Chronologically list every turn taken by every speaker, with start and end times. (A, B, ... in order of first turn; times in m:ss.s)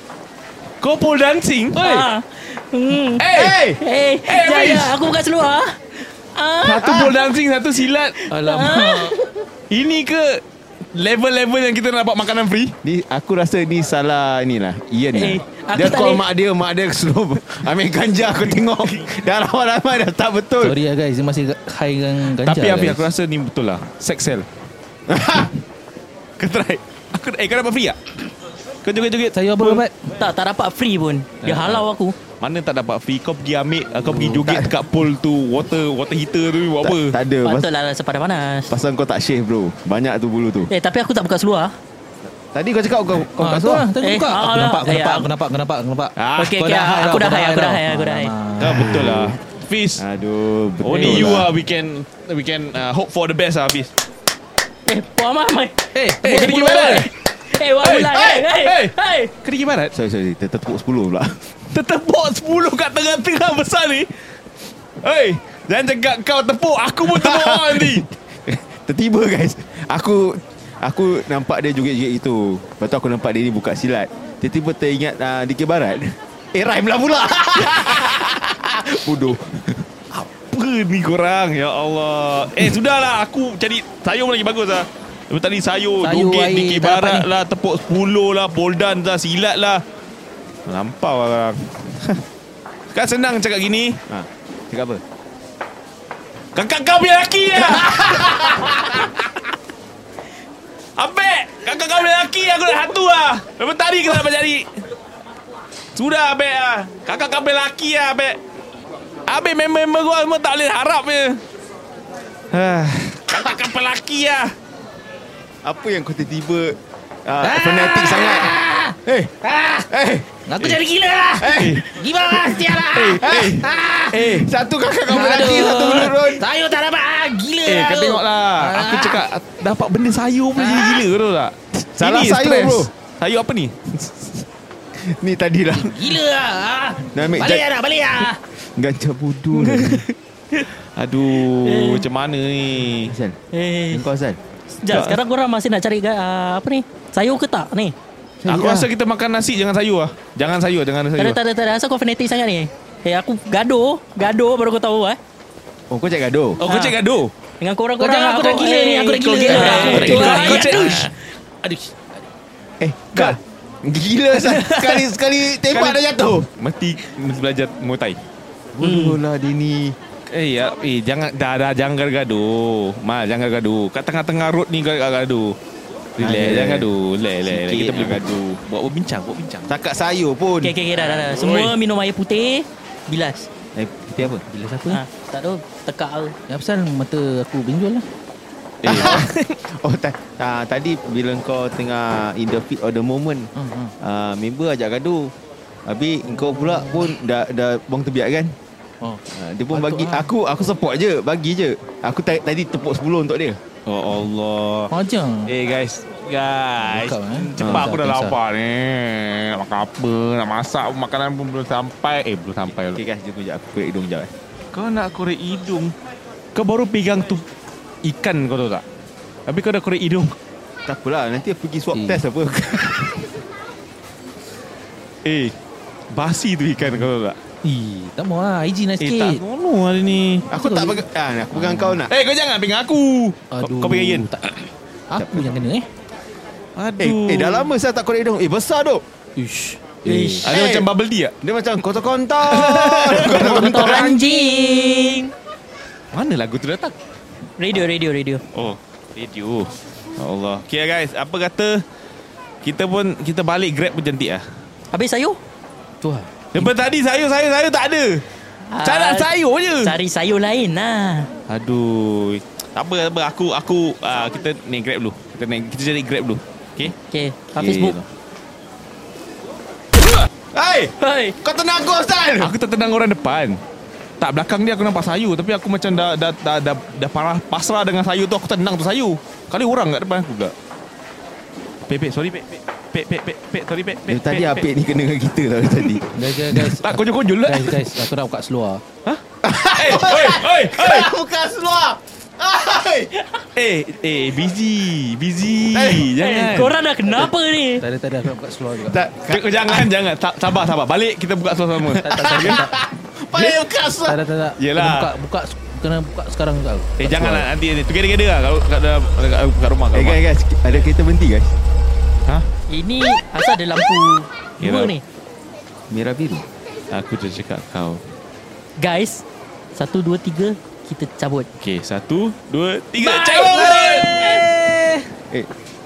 0:00.8-0:02.0 A
0:01.8-0:03.2 B
0:03.2-0:05.0 A
0:03.2-0:03.6 C
0:03.8-0:07.1 B
0:06.6-0:08.3 A
0:08.3-0:09.1 D
0:08.3-0:09.4 B
0:09.7-0:10.4 A
0:10.9-0:12.7 A
0:12.8-0:20.8 C
0:15.1-0:16.2 B
0:20.6-0:23.1 D
0:22.2-0:24.4 A
0:25.1-0:25.5 C
0:26.4-0:28.0 A
0:28.8-0:29.8 A
0:29.3-0:30.1 D
0:30.2-0:32.2 B
0:31.4-0:31.8 A
0:32.4-0:37.2 A
0:34.0-0:34.7 C
0:36.8-0:37.7 C
0:37.4-0:38.7 B
0:38.7-0:40.7 C
0:40.7-0:41.7 B
0:42.4-0:43.9 C
0:43.4-0:49.3 D
0:44.0-0:45.3 B
0:46.2-0:46.6 A
0:46.4-0:48.3 B
0:48.6-0:50.0 A
0:50.0-0:51.5 C
0:50.8-0:53.9 A
0:51.0-0:51.3 D
0:54.9-0:59.3 B
0:55.9-0:57.1 D
0:56.2-0:57.1 A
0:57.8-0:59.9 A
0:59.9-1:01.5 C
1:01.7-1:04.1 A
1:05.0-1:08.0 A
1:07.1-1:19.8 C
1:17.6-1:18.4 A
1:20.1-1:29.8 A
1:26.0-1:27.3 D
1:30.7-1:32.2 A
1:32.9-1:34.0 A
1:34.1-1:35.0 C
1:36.5-1:39.5 A
1:41.0-1:44.8 A
1:46.0-1:48.4 A
1:49.3-1:51.4 A
1:52.5-1:54.5 A
1:55.6-2:00.3 C
1:57.4-1:59.0 D
1:59.5-1:59.8 D
2:00.5-2:04.4 D
2:01.4-2:02.1 C
2:01.6-2:01.9 A
2:02.6-2:04.4 A
2:03.2-2:06.4 C
2:05.1-2:09.2 D
2:07.6-2:13.8 A
2:10.6-2:11.1 D
2:11.8-2:12.9 C
2:13.9-2:14.4 C
2:15.0-2:15.9 C
2:15.7-2:18.4 D
2:17.1-2:20.0 C
2:19.5-2:23.1 A
2:21.5-2:22.0 B
2:23.0-2:23.4 C
2:23.5-2:24.0 B
2:23.9-2:24.4 C
2:24.8-2:27.9 B
2:24.9-2:25.2 A
2:28.4-2:28.9 C
2:28.5-2:31.4 A
2:31.2-2:35.2 B
2:35.9-2:36.6 C
2:36.6-2:37.3 A
2:36.6-2:36.9 D
2:37.6-2:41.1 B
2:38.0-2:42.3 D
2:39.3-2:41.1 A
2:42.8-2:46.5 C
2:44.3-2:46.0 A
2:46.6-2:48.2 A
2:48.7-2:50.0 C
2:48.8-2:49.2 B
2:50.3-2:55.6 A
2:56.2-2:59.7 A
2:56.2-2:56.9 C
2:57.4-2:58.6 C
2:59.7-3:00.7 C
3:00.6-3:03.5 B
3:00.9-3:01.7 A
3:03.7-3:04.4 C
3:04.4-3:05.0 D
3:04.9-3:06.4 B
3:06.5-3:08.0 D
3:08.8-3:09.5 A
3:08.8-3:15.3 C
3:13.5-3:13.9 D
3:15.8-3:18.5 C
3:16.4-3:17.1 D
3:19.0-3:20.3 D
3:19.3-3:23.6 C
3:23.9-3:24.9 A
3:24.9-3:25.5 D
3:25.5-3:33.0 A
3:26.8-3:28.4 D
3:27.6-3:27.9 C
3:32.9-3:34.3 C
3:34.7-3:35.9 A
3:36.5-3:37.4 A
3:38.0-3:38.8 A
3:39.5-3:40.4 A
3:40.8-3:43.4 C
3:41.9-3:42.2 D
3:45.2-3:45.5 A
3:46.1-3:47.4 A
3:47.6-3:49.4 D
3:49.0-3:50.5 A
3:50.5-3:52.1 C
3:50.5-3:52.0 D
3:52.1-3:54.3 A
3:53.5-3:54.6 D
3:55.1-3:55.8 D
3:55.1-3:55.5 C
3:56.8-3:57.7 A
3:57.0-3:59.0 C
3:59.4-4:00.4 D
4:00.0-4:00.5 B
4:00.4-4:01.3 A
4:00.5-4:00.9 C
4:01.4-4:04.5 C
4:02.4-4:04.0 A
4:03.1-4:05.3 B
4:06.1-4:07.0 A
4:07.6-4:08.4 B
4:08.5-4:11.8 A
4:12.6-4:14.4 A
4:14.9-4:15.4 B
4:16.0-4:16.3 D
4:16.5-4:18.2 A
4:18.7-4:19.3 B
4:18.8-4:20.0 A
4:19.8-4:21.3 B
4:21.5-4:26.9 A
4:27.0-4:28.0 B
4:27.6-4:28.0 C
4:30.5-4:32.5 C
4:31.0-4:31.4 B
4:32.4-4:33.6 A
4:34.2-4:40.5 A
4:41.9-4:44.6 A
4:44.1-4:46.0 C
4:45.8-4:48.1 A
4:46.1-4:48.8 D
4:49.0-4:51.1 A
4:49.4-4:53.1 C
4:53.5-4:56.8 A
4:55.7-4:56.1 C
4:56.2-4:57.8 B
4:57.8-4:59.1 D
4:58.9-4:59.9 C
4:59.3-5:02.7 A
5:02.0-5:02.8 D
5:02.0-5:04.2 C
5:03.3-5:05.1 A
5:04.0-5:07.3 D
5:07.0-5:10.2 A
5:07.1-5:07.4 C
5:09.9-5:11.5 C
5:12.7-5:15.0 B
5:14.6-5:14.9 A
5:15.9-5:16.4 C
5:16.9-5:18.0 A
5:18.8-5:21.5 B
5:21.6-5:24.2 A
5:23.0-5:24.4 B
5:23.3-5:25.1 D